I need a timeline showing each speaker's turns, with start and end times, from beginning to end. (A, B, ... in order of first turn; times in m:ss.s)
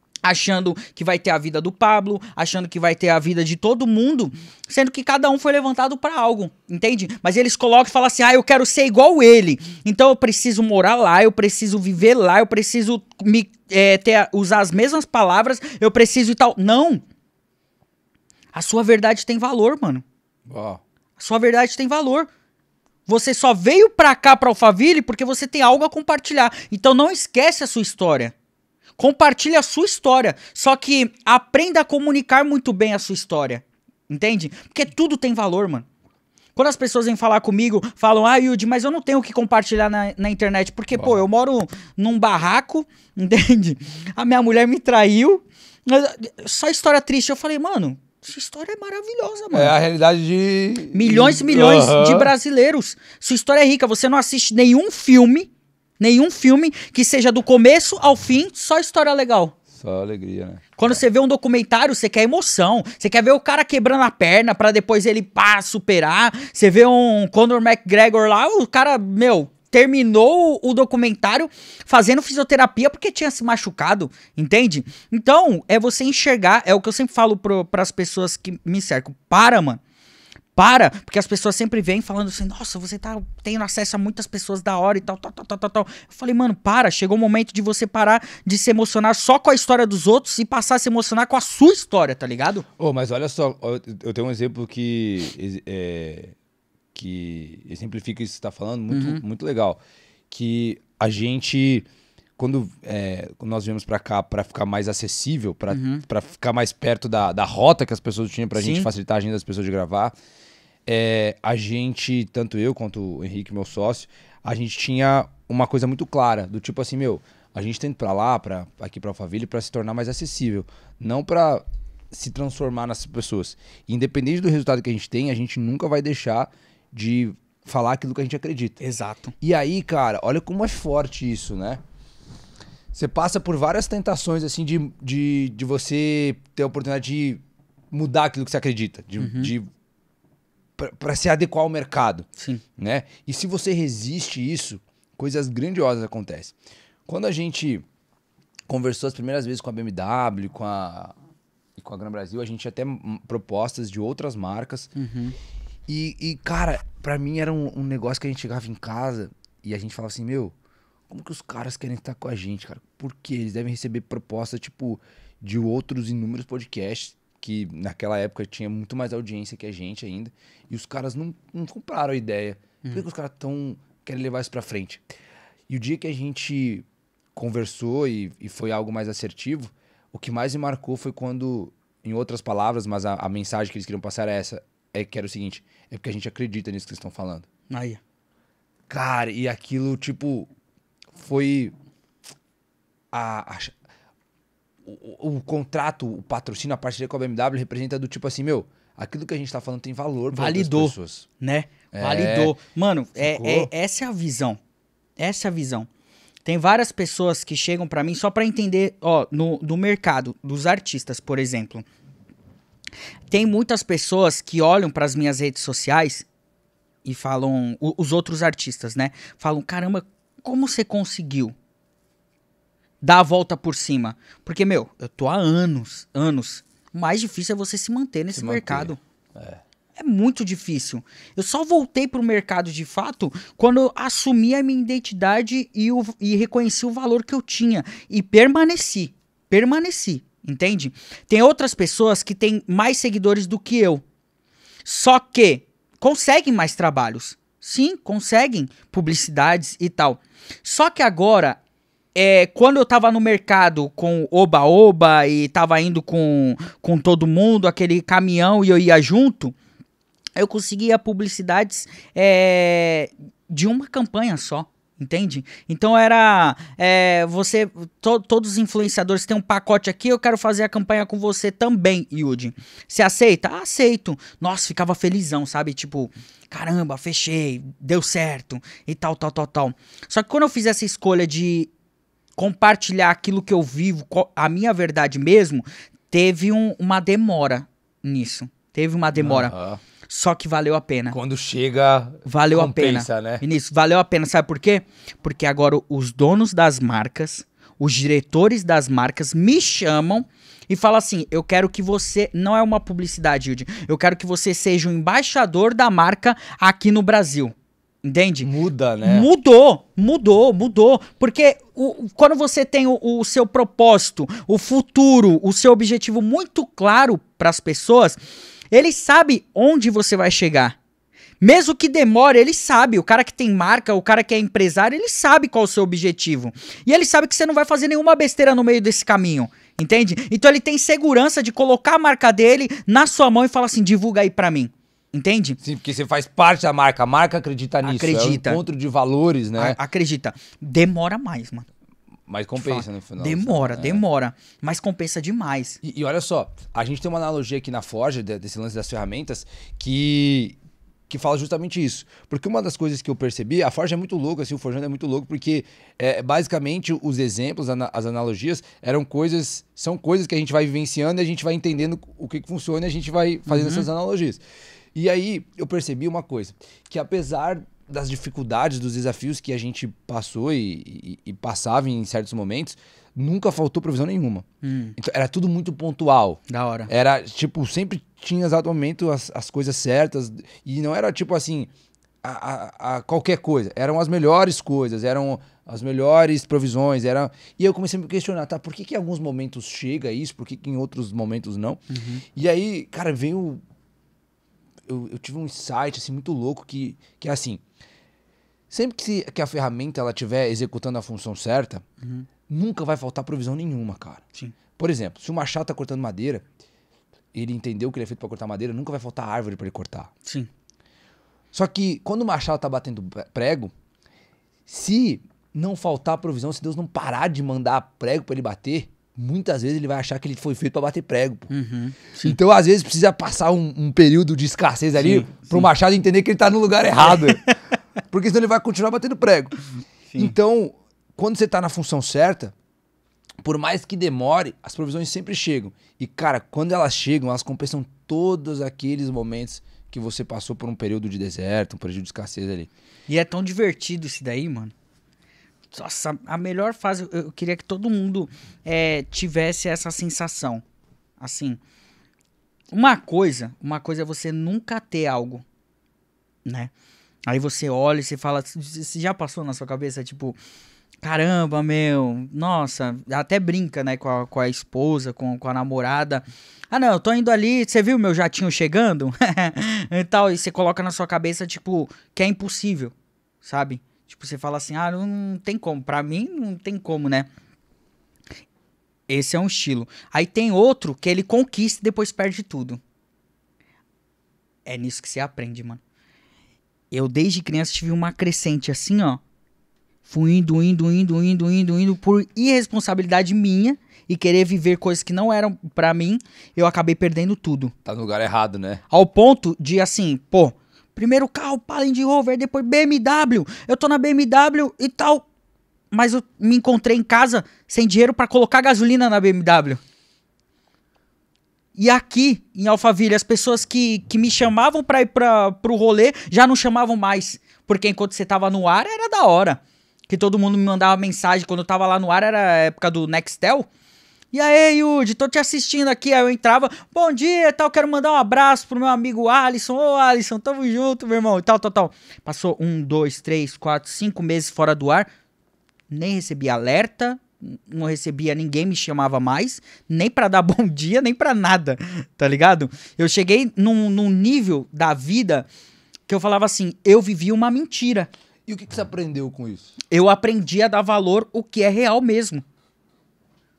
0:00.2-0:17.0 A
0:18.5-0:20.0 A
0:20.5-0:20.8 B
0:21.2-0:22.3 A
0:23.0-0:28.3 A
0:29.0-0:35.8 A
0:36.6-0:49.7 A
0:40.9-0:41.2 B
0:49.5-0:52.3 B
0:50.9-0:59.6 A
0:59.7-1:01.0 B
1:00.8-1:19.8 A
1:20.6-1:32.6 A
1:32.8-1:36.3 B
1:36.9-1:41.9 B
1:38.9-1:39.2 A
1:42.4-1:50.1 B
1:45.7-1:46.0 A
1:48.6-1:48.9 A
1:50.9-2:08.8 B
2:08.8-2:09.3 A
2:09.4-2:11.8 B
2:12.9-2:19.7 B
2:19.2-2:19.5 A
2:20.8-2:22.2 B
2:22.8-2:26.5 B
2:27.1-2:27.8 B
2:28.7-2:31.2 B
2:31.8-2:34.9 B
2:35.0-2:35.3 A
2:35.9-2:40.5 B
2:41.1-2:55.0 B
2:55.7-3:07.5 B
3:07.7-3:08.0 A
3:08.9-3:10.5 B
3:11.2-3:11.7 B
3:13.1-3:13.8 B
3:14.8-3:21.2 B
3:20.3-3:24.6 A
3:21.9-3:22.5 B
3:23.2-3:23.7 B
3:25.2-3:25.9 A
3:26.5-3:31.8 A
3:33.3-3:36.2 A
3:37.0-3:41.5 A
3:43.0-3:49.0 A
3:48.3-3:49.6 B
3:50.0-4:04.0 A
4:04.8-4:11.6 A
4:12.2-4:19.6 A
4:20.4-4:41.7 A
4:42.4-4:49.5 A
4:49.2-4:49.8 B
4:50.1-4:51.2 A
4:51.1-4:53.4 B
4:52.2-5:08.5 A
5:08.4-5:09.3 B
5:09.0-5:18.2 A
5:18.7-5:20.8 A
5:21.4-5:35.6 A
5:35.6-5:39.8 B
5:37.8-5:38.6 A
5:39.6-5:41.7 A
5:42.3-5:44.0 B
5:42.6-5:45.8 A
5:45.8-5:50.6 B
5:51.1-6:04.4 B
6:03.5-6:03.9 A
6:05.0-6:14.5 B
6:14.6-6:15.0 A
6:15.0-6:21.7 B
6:16.5-6:16.9 A
6:22.2-6:33.6 B
6:31.9-6:32.2 A
6:34.9-6:37.6 B
6:38.7-6:41.8 B
6:42.0-6:42.3 A
6:42.5-6:44.2 B
6:44.8-6:46.4 B
6:47.3-6:50.1 B
6:51.5-6:53.7 B
6:54.7-7:01.5 B
7:01.5-7:02.4 A
7:02.2-7:07.5 B
7:05.0-7:05.7 A
7:07.0-7:07.5 A
7:08.1-7:09.6 B
7:10.2-7:12.5 B
7:13.4-7:22.7 B
7:23.1-7:24.7 A
7:25.7-7:30.6 A
7:31.2-7:31.6 A
7:32.7-7:35.4 A
7:36.4-7:36.7 A
7:37.3-7:40.4 A
7:41.0-7:57.3 A
7:59.1-8:02.8 A
8:04.7-8:05.8 A
8:06.9-8:09.2 A
8:10.0-8:17.7 A
8:17.8-8:18.8 B
8:18.9-8:25.3 A
8:25.9-8:29.8 A
8:31.8-8:43.7 A
8:44.3-8:55.1 A
8:55.9-9:05.5 A
9:06.1-9:08.1 A
9:08.5-9:09.7 B
9:09.9-9:12.4 A